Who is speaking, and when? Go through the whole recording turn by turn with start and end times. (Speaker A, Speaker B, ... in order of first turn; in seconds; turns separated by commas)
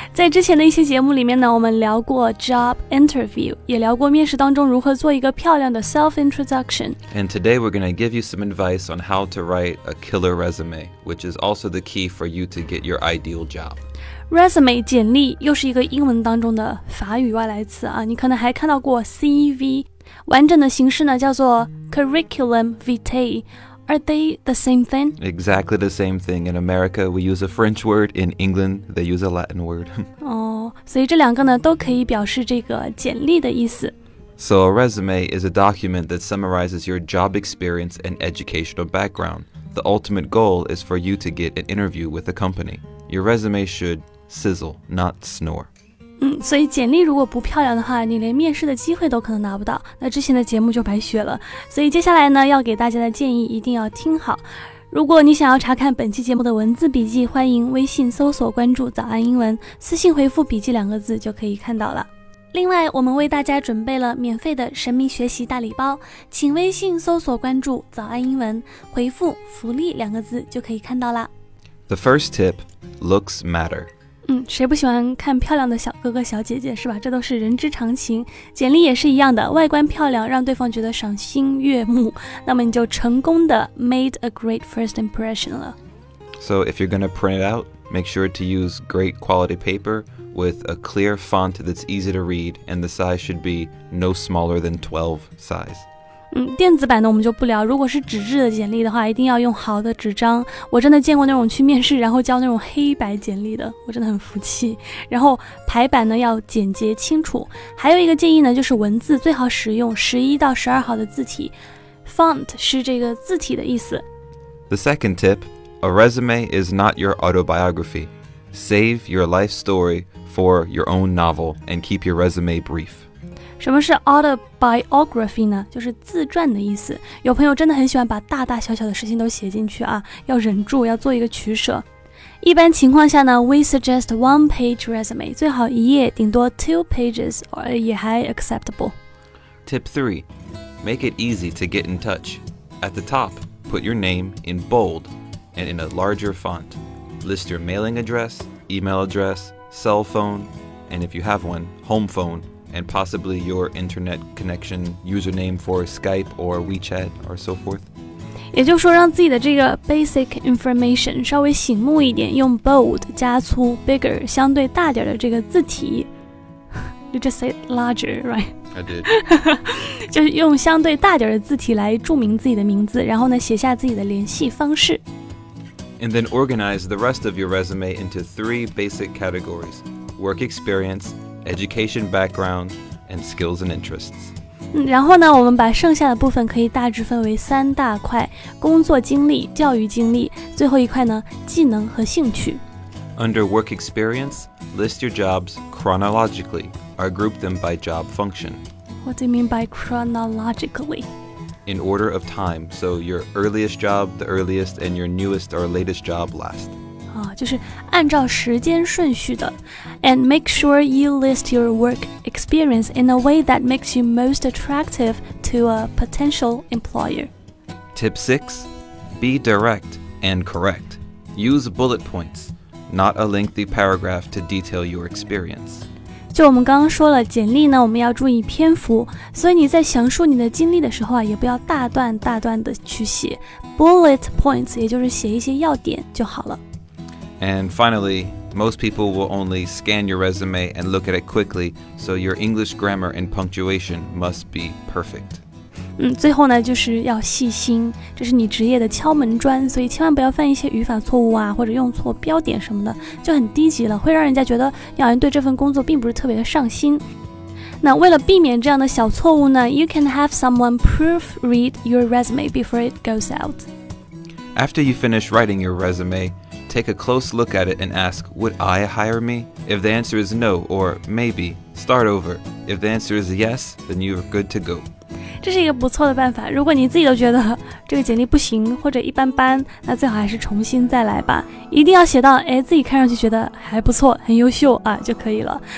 Speaker A: 0.1-7.0, Speaker B: 7.1-13.8, Speaker A: 14.3-25.2, Speaker B: 25.2-30.1, Speaker A: 30.2-33.9, Speaker B: 34.4-45.7, Speaker A: 46.2-71.3, Speaker B: 71.9-73.9, Speaker A: 74.3-85.8, Speaker B: 86.4-95.9, Speaker A: 96.3-111.5, Speaker A: 112.0-114.0, Speaker B: 114.7-123.1, Speaker A: 123.6-131.8, Speaker A: 132.4-138.9, Speaker B: 139.7-140.3, Speaker B: 140.8-157.9, Speaker A: 158.5-166.1, Speaker A: 167.1-175.0, Speaker B: 168.7-169.1, Speaker B: 176.0-184.3, Speaker A: 184.7-192.6, Speaker B: 193.2-198.6, Speaker A: 199.0-201.1, Speaker B: 201.7-206.8, Speaker A: 207.1-217.3, Speaker B: 217.9-225.9, Speaker A: 226.3-236.6, Speaker B: 237.4-245.4, Speaker A: 246.0-257.0, Speaker A: 257.8-263.7, Speaker B: 264.6-274.9, Speaker A: 275.4-285.6